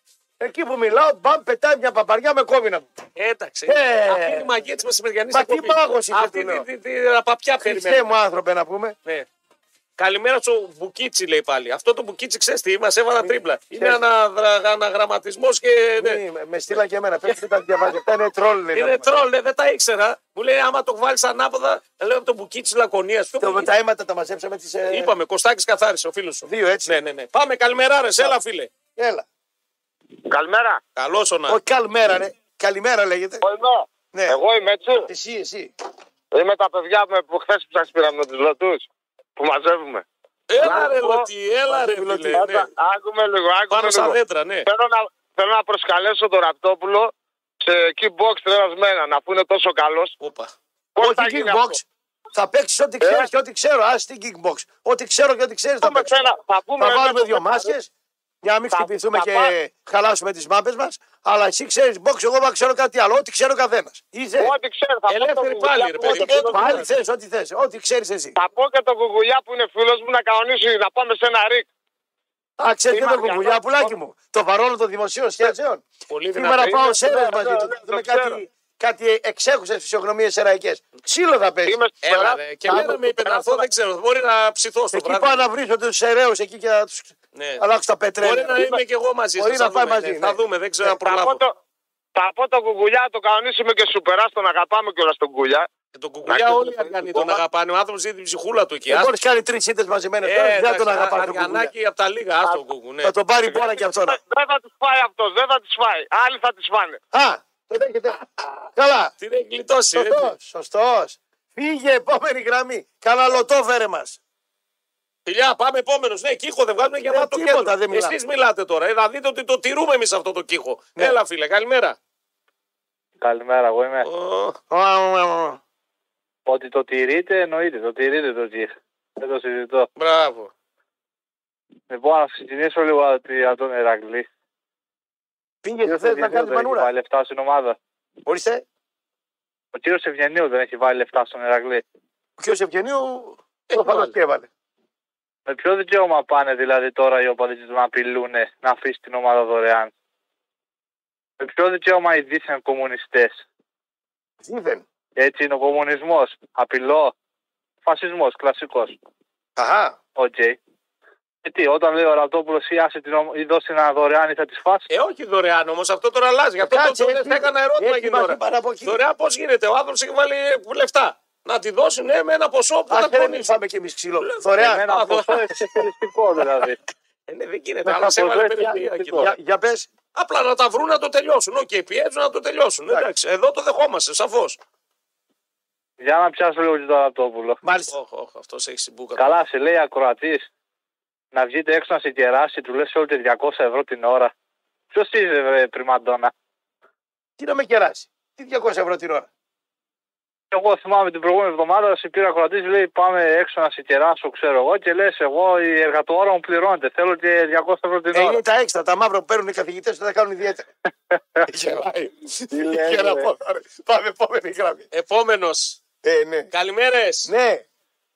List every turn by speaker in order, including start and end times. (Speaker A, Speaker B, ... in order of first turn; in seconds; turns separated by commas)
Speaker A: 0.4-2.9, Speaker B: 3.2-8.1, Speaker A: 3.7-4.5, Speaker A: 5.3-6.7, Speaker A: 7.6-8.9, Speaker B: 10.0-16.2, Speaker A: 13.2-14.0, Speaker A: 16.0-19.2, Speaker B: 18.7-23.7, Speaker A: 23.4-25.1, Speaker B: 24.9-28.7, Speaker A: 26.4-26.9, Speaker A: 29.0-29.2, Speaker C: 30.3-30.8, Speaker B: 31.0-31.6, Speaker A: 31.5-33.5, Speaker C: 33.4-35.1, Speaker A: 34.1-34.4, Speaker A: 35.1-35.7, Speaker C: 36.3-40.0, Speaker B: 40.5-42.7, Speaker C: 40.6-41.3, Speaker A: 40.6-40.9, Speaker A: 41.7-42.5, Speaker C: 42.3-47.1, Speaker B: 43.7-44.7, Speaker C: 47.6-50.1, Speaker B: 50.2-50.5, Speaker C: 51.0-51.8, Speaker A: 51.0-56.2, Speaker C: 53.0-53.3, Speaker C: 55.8-57.7, Speaker A: 56.8-57.9, Speaker A: 58.4-64.5, Speaker C: 58.7-59.5, Speaker C: 64.4-66.8, Speaker B: 65.1-66.9, Speaker A: 66.0-68.4, Speaker C: 68.4-71.7, Speaker A: 72.6-75.8, Speaker C: 72.9-73.9, Speaker B: 76.1-76.8, Speaker A: 76.3-81.8, Speaker C: 76.6-78.4, Speaker C: 81.7-83.5, Speaker B: 82.0-85.4, Speaker A: 82.7-83.4, Speaker A: 84.9-88.8, Speaker B: 87.3-87.6, Speaker B: 88.2-91.4, Speaker A: 89.4-90.4, Speaker C: 91.0-91.5, Speaker C: 92.2-95.7, Speaker B: 95.9-99.1, Speaker C: 96.3-97.4, Speaker A: 98.9-101.7, Speaker B: 100.2-103.1, Speaker A: 103.0-104.2, Speaker C: 103.5-107.0, Speaker A: 107.1-109.1, Speaker B: 109.2-110.3, Speaker A: 109.9-114.2, Speaker B: 115.3-122.0, Speaker A: 117.0-118.2, Speaker D: 123.2-124.1, Speaker B: 124.0-124.6, Speaker A: 124.7-125.6, Speaker D: 126.5-129.9, Speaker B: 130.0-130.5, Speaker D: 131.9-134.3, Speaker A: 135.6-136.9, Speaker D: 135.8-137.8, Speaker A: 138.3-138.6, Speaker D: 139.8-141.8, Speaker A: 142.4-144.5, Speaker B: 143.7-144.2, Speaker D: 145.5-149.9, Speaker D: 151.4-153.4, Speaker A: 154.4-154.8, Speaker D: 155.2-157.1, Speaker D: 157.8-159.0, Speaker A: 159.6-160.0, Speaker D: 160.2-160.6, Speaker D: 161.4-164.9, Speaker B: 164.9-173.6, Speaker A: 166.6-169.0, Speaker A: 172.9-175.0, Speaker B: 174.2-175.4, Speaker D: 174.6-176.8, Speaker B: 177.3-179.3, Speaker D: 177.9-179.2, Speaker A: 178.6-179.9, Speaker B: 180.1-184.6, Speaker D: 186.0-187.6, Speaker A: 187.6-187.9, Speaker B: 187.9-189.4, Speaker D: 189.2-190.5, Speaker D: 191.3-194.3, Speaker D: 194.9-196.3, Speaker A: 197.4-199.3, Speaker D: 200.5-208.4, Speaker A: 208.1-210.7, Speaker A: 211.5-214.9, Speaker D: 212.9-213.2, Speaker B: 214.9-215.8, Speaker A: 216.0-216.5, Speaker B: 216.5-217.3, Speaker A: 217.2-217.6